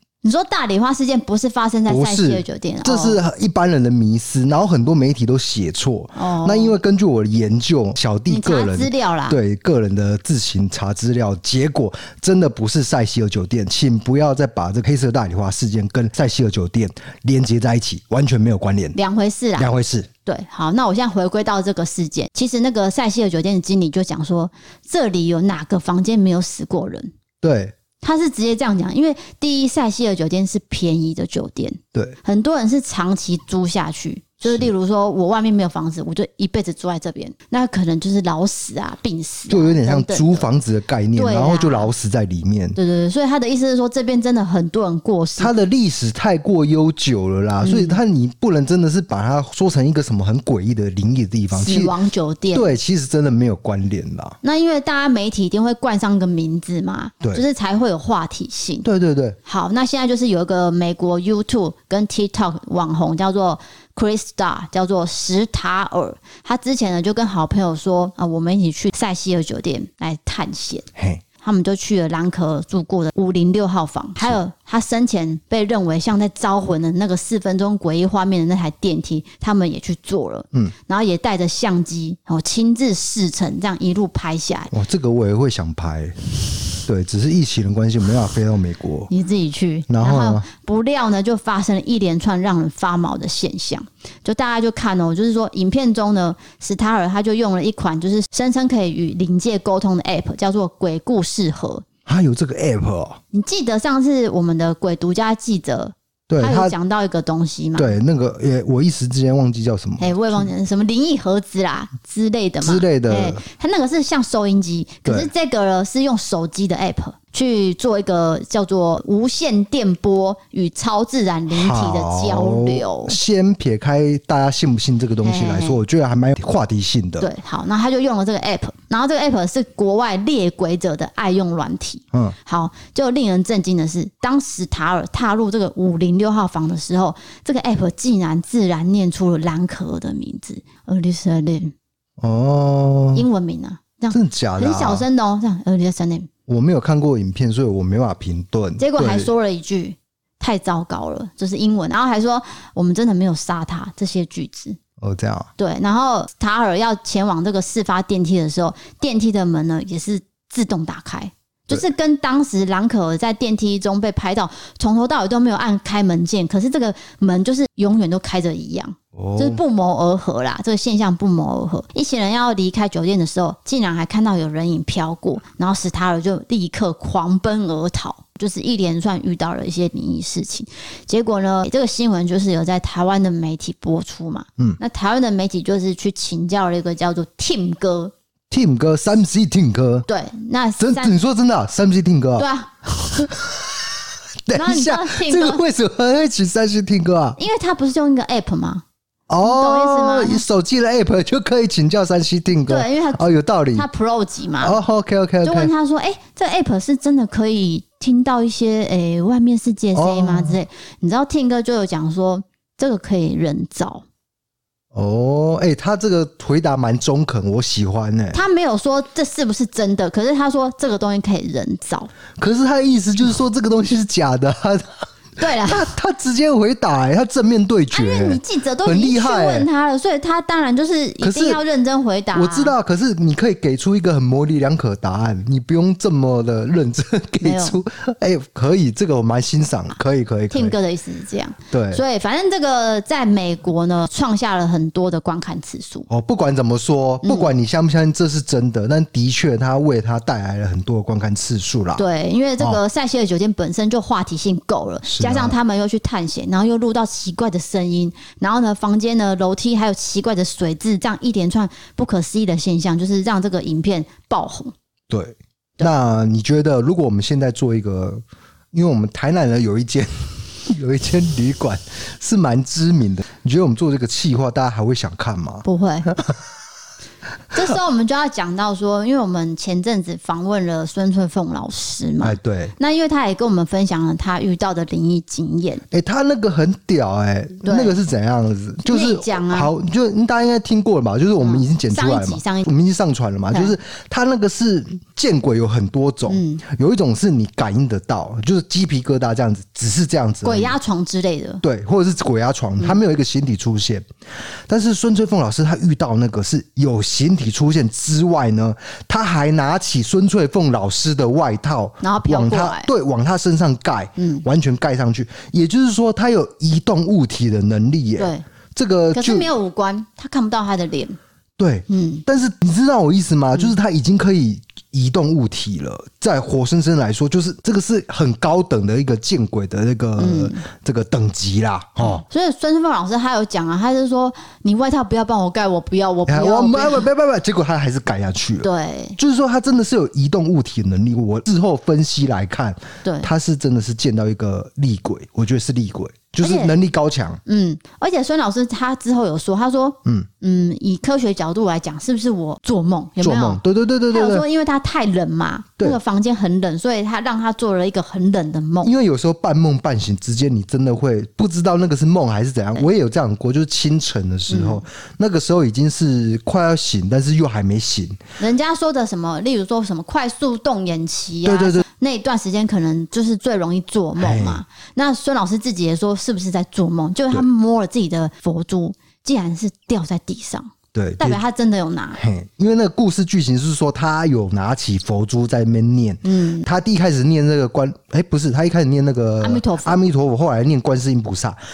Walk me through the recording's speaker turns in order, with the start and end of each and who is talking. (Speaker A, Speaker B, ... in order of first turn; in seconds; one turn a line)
Speaker A: 0.2-3.2
Speaker B: 1.9-19.0
Speaker A: 6.1-6.8
Speaker A: 8.3-9.4
Speaker A: 18.9-19.7
Speaker B: 19.6-20.1
Speaker A: 20.2-27.1
Speaker B: 27.4-27.7
Speaker A: 28.0-40.5
Speaker B: 34.4-34.7
Speaker B: 39.5-42.8
Speaker A: 41.1-41.9
Speaker A: 42.8-45.5
Speaker B: 45.4-51.9
Speaker A: 47.6-48.0
Speaker A: 51.5-52.7
Speaker B: 52.5-54.4
Speaker A: 54.4-58.9
Speaker B: 58.8-59.4
Speaker A: 59.5-70.9
Speaker B: 71.0-71.2
Speaker A: 71.4-84.7
Speaker B: 84.7-89.1
Speaker A: 89.1-101.8
Speaker B: 89.9-90.5
Speaker B: 102.0-103.2
Speaker A: 103.3-107.9
Speaker B: 106.3-106.7
Speaker B: 107.8-110.5
Speaker A: 110.0-123.2
Speaker B: 112.6-113.4
Speaker B: 121.5-127.3
Speaker A: 125.2-125.8
Speaker A: 127.2-141.7
Speaker B: 142.2-143.2
Speaker A: 143.1-146.3
Speaker B: 144.1-145.1
Speaker B: 146.5-149.3
Speaker A: 148.8-154.8
Speaker B: 155.0-155.5
Speaker A: 155.6-188.1
Speaker B: 169.1-169.6
Speaker B: 188.5-190.1
Speaker A: 190.1-191.1
Speaker B: 190.8-192.5
Speaker A: 192.4-193.2
Speaker B: 193.2-193.8
Speaker B: 194.5-197.4
Speaker A: 194.5-195.6
Speaker A: 197.4-198.8
Speaker B: 199.3-203.9
Speaker A: 199.4-200.4
Speaker A: 202.6-203.2
Speaker A: 203.7-204.8
Speaker B: 204.6-205.7
Speaker A: 205.4-214.0
Speaker B: 209.9-210.6
Speaker B: 214.9-218.4
Speaker A: 218.3-222.1
Speaker B: 222.4-229.7
Speaker A: 225.4-225.9
Speaker A: 227.9-232.7
Speaker B: 231.2-231.6
Speaker B: 232.3-240.7
Speaker A: 237.4-237.8
Speaker A: 240.5-246.1
Speaker B: 241.7-242.0
Speaker B: 246.1-252.0
Speaker A: 247.2-247.5
Speaker A: 251.9-264.7
Speaker B: 255.0-255.6
Speaker B: 265.1-268.2
Speaker B: 268.7-276.4
Speaker A: 275.6-276.1
Speaker A: 277.5-285.8
Speaker B: 282.2-282.7
Speaker B: 285.9-300.7
Speaker A: 287.6-288.0
Speaker A: 288.9-289.7
Speaker A: 291.4-292.7
Speaker A: 296.3-296.6
Speaker A: 300.4-301.6
Speaker B: 301.6-304.1
Speaker B: 304.7-319.5
Speaker A: 312.0-312.9
Speaker A: 314.2-314.4
Speaker A: 318.2-318.4
Speaker A: 319.1-321.2
Speaker B: 321.6-332.2
Speaker A: 321.9-322.2
Speaker A: 330.2-330.6
Speaker A: 332.0-337.1
Speaker B: 336.3-347.4
Speaker A: 338.6-339.2
Speaker A: 343.0-343.3
Speaker A: 346.4-346.7
Speaker A: 347.4-358.9
Speaker B: 353.2-354.4
Speaker B: 358.8-368.2
Speaker A: 364.5-364.8
Speaker A: 368.4-382.2
Speaker B: 371.4-371.8
Speaker B: 374.2-374.6
Speaker B: 380.9-381.4
Speaker B: 382.1-391.6
Speaker A: 386.2-386.7
Speaker A: 389.4-390.0